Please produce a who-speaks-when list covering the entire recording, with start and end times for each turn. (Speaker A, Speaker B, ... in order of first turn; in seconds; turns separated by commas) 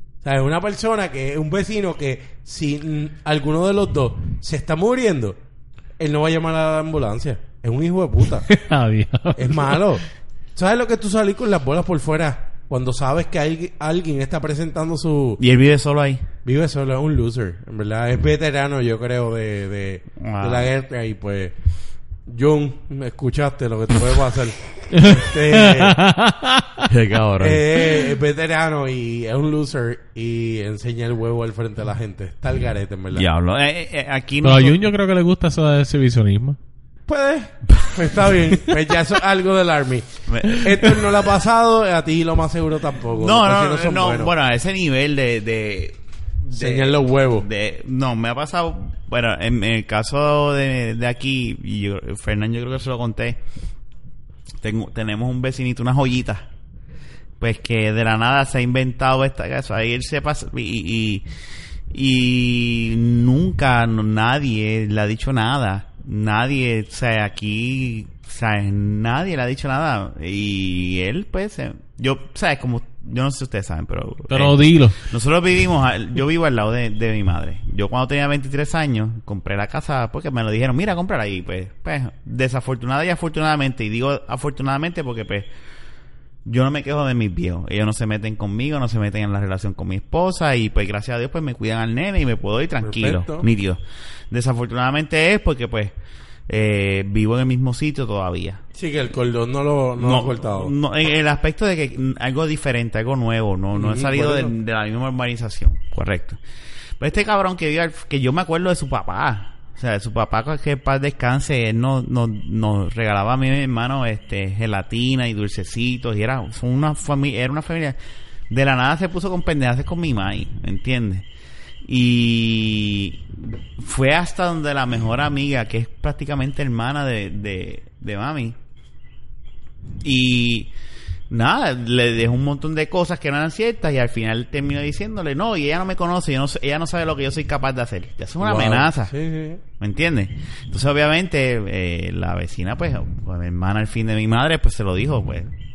Speaker A: 0.2-5.4, Speaker A: 6.0-8.5, Speaker B: 8.4-9.9, Speaker A: 9.4-10.0, Speaker A: 10.6-15.4, Speaker C: 15.4-16.2, Speaker A: 16.4-21.6, Speaker C: 20.2-20.7, Speaker A: 22.3-26.0, Speaker B: 24.9-26.9, Speaker C: 26.9-27.6, Speaker A: 27.4-33.3, Speaker C: 33.1-34.8, Speaker B: 34.4-36.6, Speaker A: 37.1-44.3, Speaker C: 37.7-38.0, Speaker C: 40.3-41.2, Speaker C: 43.2-53.4, Speaker A: 46.5-47.5, Speaker C: 54.6-56.5, Speaker C: 57.4-61.2, Speaker C: 61.9-85.5, Speaker B: 74.3-75.0, Speaker C: 86.5-93.8, Speaker A: 92.8-93.5, Speaker C: 94.3-95.9, Speaker C: 96.5-98.6, Speaker A: 98.8-100.7, Speaker C: 100.0-106.4, Speaker A: 103.7-104.5, Speaker C: 107.0-118.0, Speaker C: 118.5-121.2, Speaker C: 121.8-123.2, Speaker C: 123.8-128.6, Speaker C: 130.0-130.7, Speaker C: 131.3-139.1, Speaker A: 138.4-139.6, Speaker C: 139.8-145.5